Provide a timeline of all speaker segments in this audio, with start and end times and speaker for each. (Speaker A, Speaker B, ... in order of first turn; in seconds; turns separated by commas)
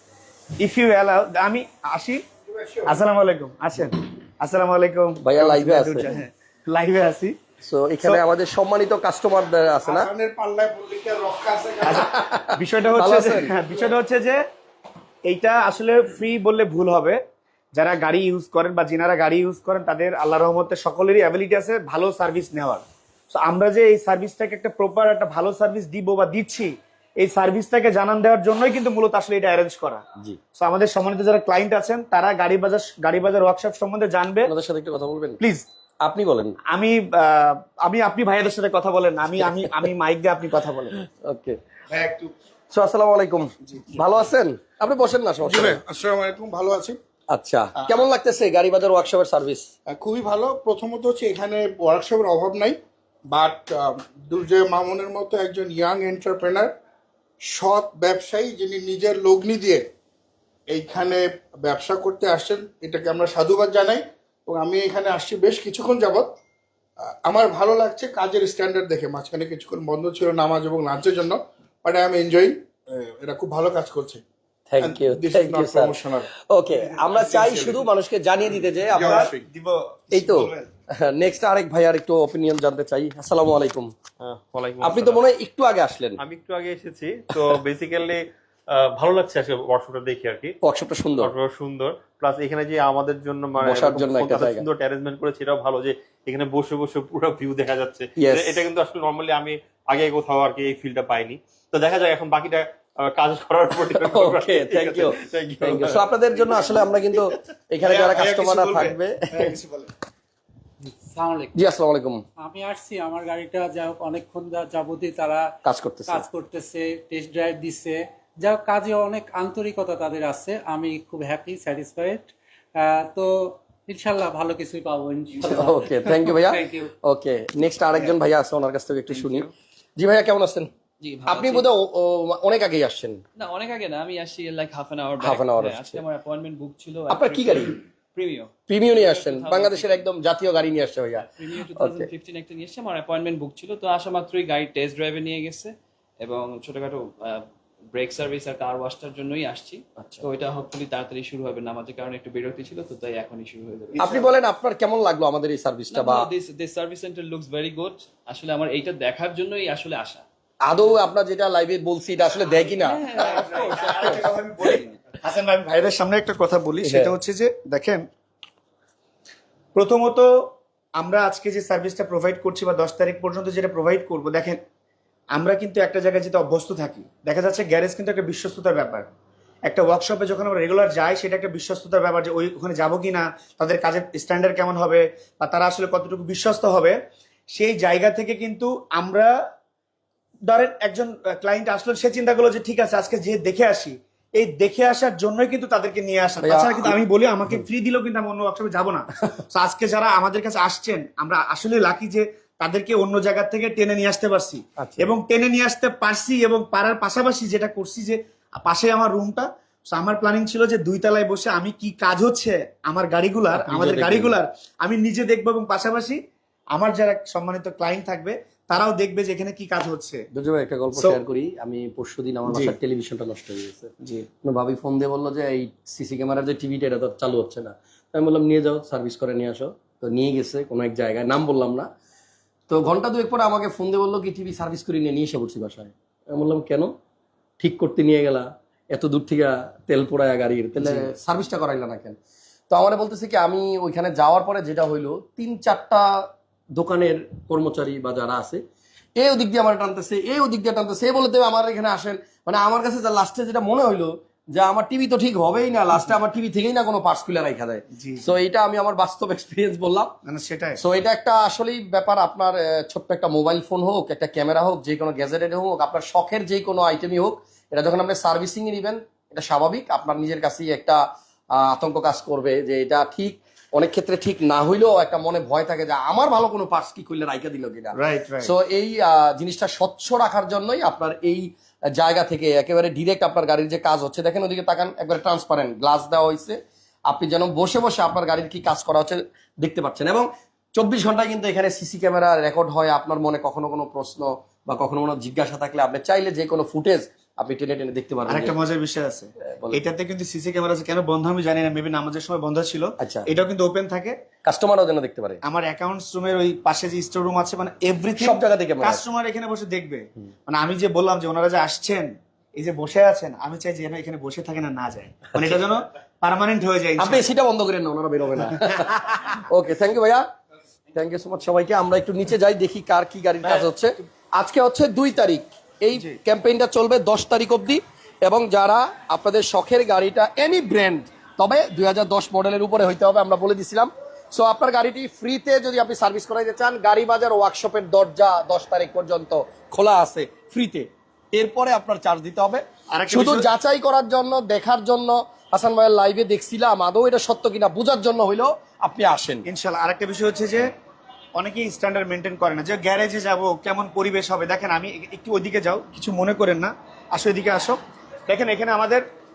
Speaker A: 0.6-2.2, Speaker B: 2.5-3.0, Speaker A: 2.9-7.3, Speaker C: 5.2-6.0, Speaker C: 7.6-10.1, Speaker B: 9.8-12.1, Speaker A: 11.8-14.4, Speaker C: 12.1-13.5, Speaker A: 15.2-17.2, Speaker A: 17.7-30.0, Speaker A: 30.6-34.5, Speaker C: 34.5-35.4, Speaker A: 35.4-35.6, Speaker C: 36.0-36.6, Speaker A: 36.7-40.9, Speaker C: 41.0-41.6, Speaker A: 41.9-42.3, Speaker C: 42.7-45.8, Speaker B: 45.4-47.0, Speaker C: 47.3-49.7, Speaker B: 49.9-56.7, Speaker B: 57.4-59.9, Speaker B: 60.7-66.3, Speaker B: 67.2-74.2, Speaker C: 74.7-75.9, Speaker B: 74.8-76.3, Speaker C: 76.5-79.3, Speaker B: 76.9-77.8, Speaker B: 78.9-79.4, Speaker A: 79.0-80.7, Speaker C: 80.1-83.9, Speaker D: 84.2-85.3, Speaker C: 84.8-86.2, Speaker D: 86.2-90.5, Speaker C: 90.6-91.3, Speaker D: 91.2-106.6, Speaker C: 93.6-94.6, Speaker C: 98.2-98.6, Speaker C: 103.9-109.5, Speaker A: 107.8-109.9, Speaker E: 110.8-111.5, Speaker C: 111.5-112.2, Speaker E: 112.4-115.5, Speaker C: 115.6-116.3, Speaker E: 116.0-126.9, Speaker C: 125.4-130.7, Speaker F: 129.1-129.4, Speaker F: 131.0-131.7, Speaker C: 131.2-133.2, Speaker F: 133.3-140.0, Speaker C: 135.2-136.0, Speaker C: 137.1-137.8, Speaker C: 138.7-142.1, Speaker F: 141.4-154.0, Speaker C: 150.0-150.2, Speaker A: 154.0-154.3, Speaker C: 154.0-156.3, Speaker F: 155.9-160.2, Speaker C: 160.6-163.2, Speaker F: 162.7-164.3, Speaker A: 163.2-168.0, Speaker C: 166.8-167.1, Speaker A: 169.7-174.6, Speaker A: 175.3-179.1, Speaker A: 179.7-186.9, Speaker A: 187.5-189.3, Speaker A: 190.5-216.2, Speaker C: 196.4-196.9, Speaker C: 204.8-205.1, Speaker C: 213.6-214.4, Speaker A: 216.7-220.2, Speaker C: 220.3-223.9, Speaker A: 220.9-221.2, Speaker A: 222.5-222.7, Speaker A: 224.0-224.3, Speaker C: 224.4-231.9, Speaker C: 232.7-236.9, Speaker C: 237.6-242.2, Speaker C: 242.7-248.6, Speaker C: 249.2-260.1, Speaker A: 257.9-258.3, Speaker A: 260.2-260.8, Speaker C: 260.8-271.0, Speaker C: 271.5-286.6, Speaker A: 277.9-278.5, Speaker C: 287.1-298.5, Speaker A: 298.3-304.2, Speaker C: 299.4-299.8, Speaker C: 303.0-303.3, Speaker C: 304.4-305.4, Speaker A: 305.4-317.2, Speaker C: 308.2-309.0, Speaker C: 317.0-318.9, Speaker A: 318.5-319.4, Speaker C: 319.4-320.2, Speaker C: 320.9-349.4, Speaker A: 323.4-323.7, Speaker A: 342.9-343.5, Speaker A: 349.4-350.7, Speaker A: 351.4-359.0